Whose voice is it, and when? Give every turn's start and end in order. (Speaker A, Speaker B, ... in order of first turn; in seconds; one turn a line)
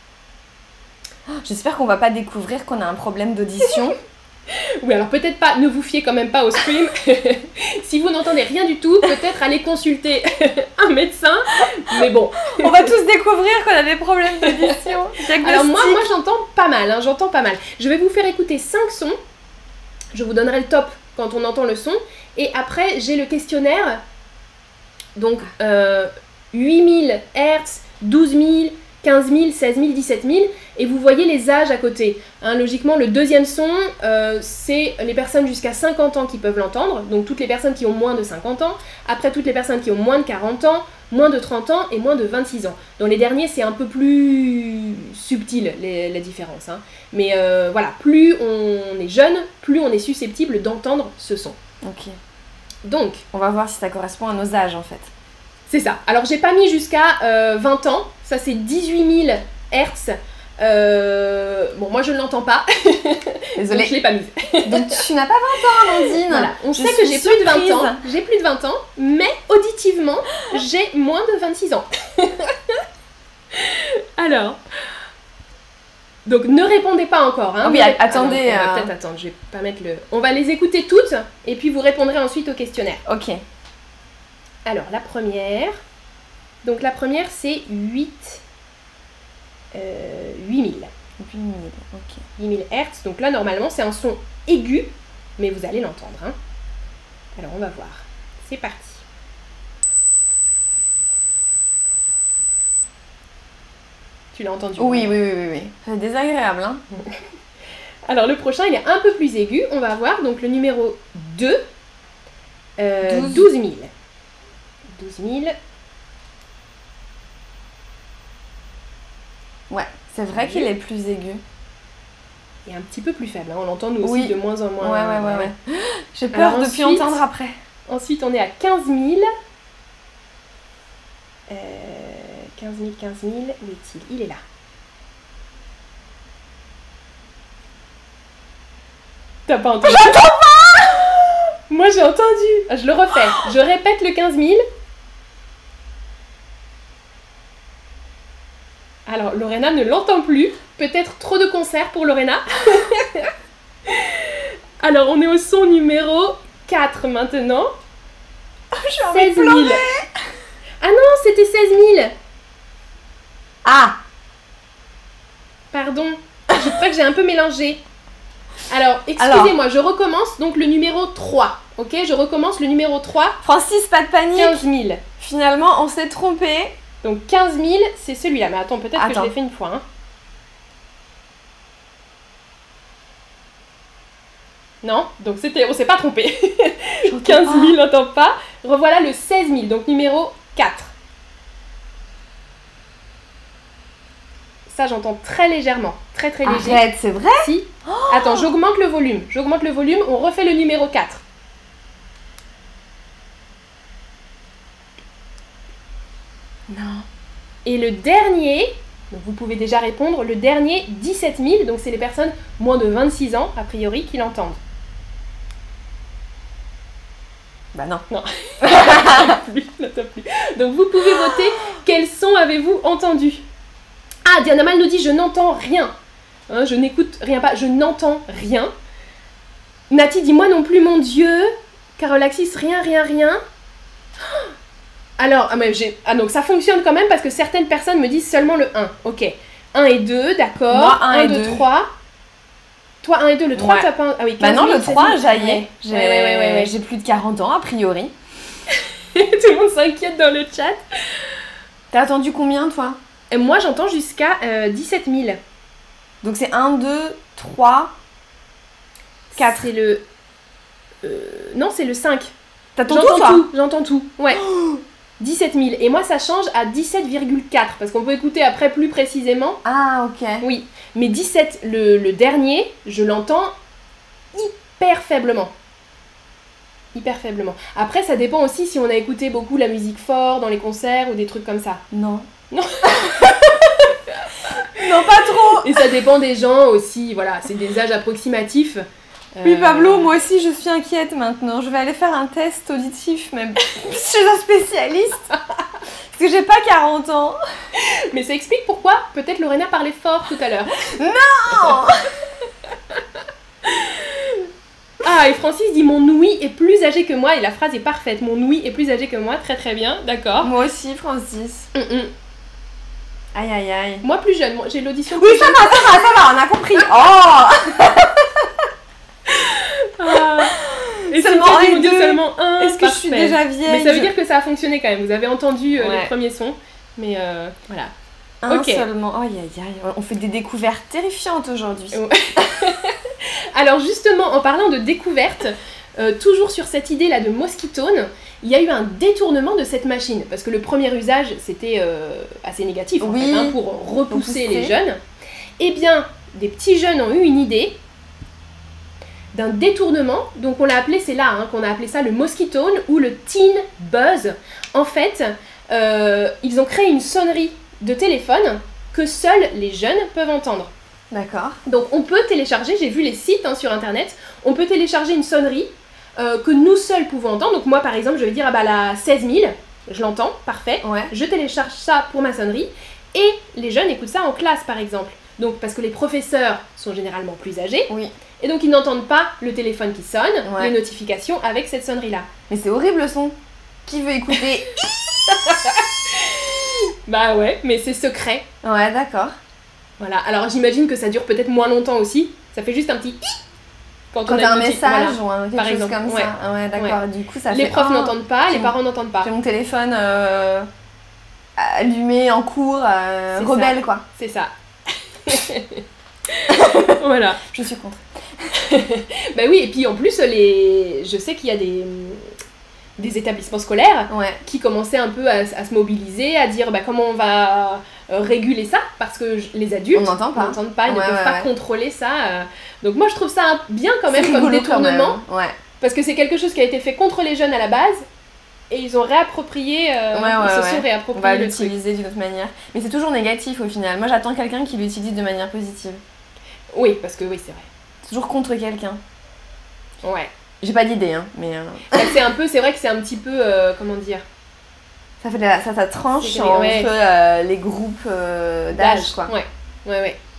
Speaker A: 1.3-4.0
Speaker B: 4.5-12.9
Speaker A: 11.9-16.1
Speaker B: 14.4-19.2
Speaker B: 20.1-24.0
Speaker B: 25.2-51.6
Speaker A: 51.8-52.1
Speaker B: 52.9-53.2
Speaker A: 53.3-55.1
Speaker B: 55.7-65.0
Speaker A: 63.6-64.0
Speaker A: 64.6-68.0
Speaker B: 65.8-72.8
Speaker B: 73.5-74.6
Speaker B: 76.3-83.0
Speaker A: 77.6-78.9
Speaker A: 83.1-83.4
Speaker B: 84.7-85.8
Speaker B: 86.6-88.4
Speaker B: 89.7-90.9
Speaker A: 91.2-92.2
Speaker B: 92.4-96.3
Speaker B: 97.4-99.0
Speaker B: 104.3-105.1
Speaker A: 104.8-106.8
Speaker B: 108.1-111.6
Speaker B: 112.8-113.9
Speaker A: 113.0-113.5
Speaker B: 115.0-115.5
Speaker A: 119.7-121.4
Speaker B: 120.3-120.7
Speaker B: 122.7-125.5
Speaker A: 124.0-127.5
Speaker B: 126.3-127.2
Speaker B: 127.9-129.3
Speaker B: 131.5-134.4
Speaker B: 139.5-140.3
Speaker A: 139.8-141.4
Speaker B: 141.7-144.6
Speaker B: 149.1-153.3
Speaker B: 153.9-157.7
Speaker A: 158.7-160.1
Speaker B: 159.1-159.8
Speaker B: 160.8-162.1
Speaker A: 163.7-164.0
Speaker B: 165.7-167.8
Speaker B: 168.7-173.4
Speaker A: 169.2-169.6
Speaker A: 173.4-174.6
Speaker B: 174.3-175.0
Speaker A: 175.2-176.8
Speaker B: 177.0-179.8
Speaker A: 179.0-179.3
Speaker B: 184.8-190.9
Speaker A: 187.1-187.8
Speaker B: 194.7-196.8
Speaker A: 196.4-198.5
Speaker B: 197.4-201.2
Speaker A: 206.7-207.1
Speaker B: 207.7-214.6
Speaker A: 217.7-218.0
Speaker B: 218.1-223.4
Speaker A: 218.6-219.4
Speaker A: 221.0-221.5
Speaker B: 224.2-225.9
Speaker B: 226.5-228.7
Speaker B: 229.9-233.4
Speaker B: 235.2-241.9
Speaker A: 240.7-241.7
Speaker B: 243.0-246.7
Speaker A: 243.6-248.1
Speaker B: 248.7-250.8
Speaker A: 251.9-253.0
Speaker B: 253.3-255.4
Speaker A: 256.2-257.9
Speaker B: 259.3-260.0
Speaker A: 259.4-259.7
Speaker B: 261.0-262.3
Speaker A: 262.8-263.5
Speaker B: 262.9-264.4
Speaker A: 264.3-264.8
Speaker B: 265.2-269.6
Speaker A: 269.6-270.4
Speaker B: 270.4-273.5
Speaker B: 274.3-275.5
Speaker B: 276.9-281.8
Speaker A: 281.9-282.3
Speaker B: 282.5-284.8
Speaker A: 282.8-283.3
Speaker A: 284.8-285.9
Speaker B: 285.6-288.8
Speaker B: 289.4-290.1
Speaker A: 289.4-295.2
Speaker A: 296.1-297.4
Speaker B: 297.8-300.9
Speaker A: 300.8-302.1
Speaker B: 303.6-304.5
Speaker B: 305.0-310.5
Speaker A: 310.4-311.7
Speaker B: 311.7-312.1
Speaker A: 313.3-314.0
Speaker B: 314.0-316.1
Speaker A: 315.1-318.5
Speaker B: 319.3-320.6
Speaker A: 320.1-324.1
Speaker B: 321.1-327.9
Speaker A: 325.8-326.1
Speaker A: 328.4-332.7
Speaker B: 328.5-328.9
Speaker B: 331.9-345.0
Speaker A: 343.0-344.7
Speaker B: 345.6-347.8
Speaker B: 349.3-360.7
Speaker A: 361.1-361.6
Speaker B: 361.7-382.3
Speaker A: 370.8-371.1
Speaker A: 380.4-380.7
Speaker A: 382.5-385.6
Speaker B: 385.3-388.4
Speaker A: 388.6-389.3
Speaker B: 390.0-393.3
Speaker B: 394.1-399.3
Speaker A: 394.3-400.7
Speaker A: 401.6-404.0
Speaker B: 403.3-404.5
Speaker B: 405.2-407.4
Speaker A: 406.5-408.5
Speaker B: 408.5-412.3
Speaker B: 413.0-425.2
Speaker A: 414.1-414.4
Speaker A: 419.9-421.5
Speaker A: 424.1-425.6
Speaker B: 425.8-428.1
Speaker B: 428.7-431.8
Speaker A: 430.1-436.0
Speaker B: 436.7-437.7
Speaker A: 438.1-439.0
Speaker B: 440.0-440.3
Speaker A: 440.6-442.2
Speaker B: 441.9-444.2
Speaker A: 445.2-449.3
Speaker B: 446.2-446.9
Speaker B: 448.7-450.2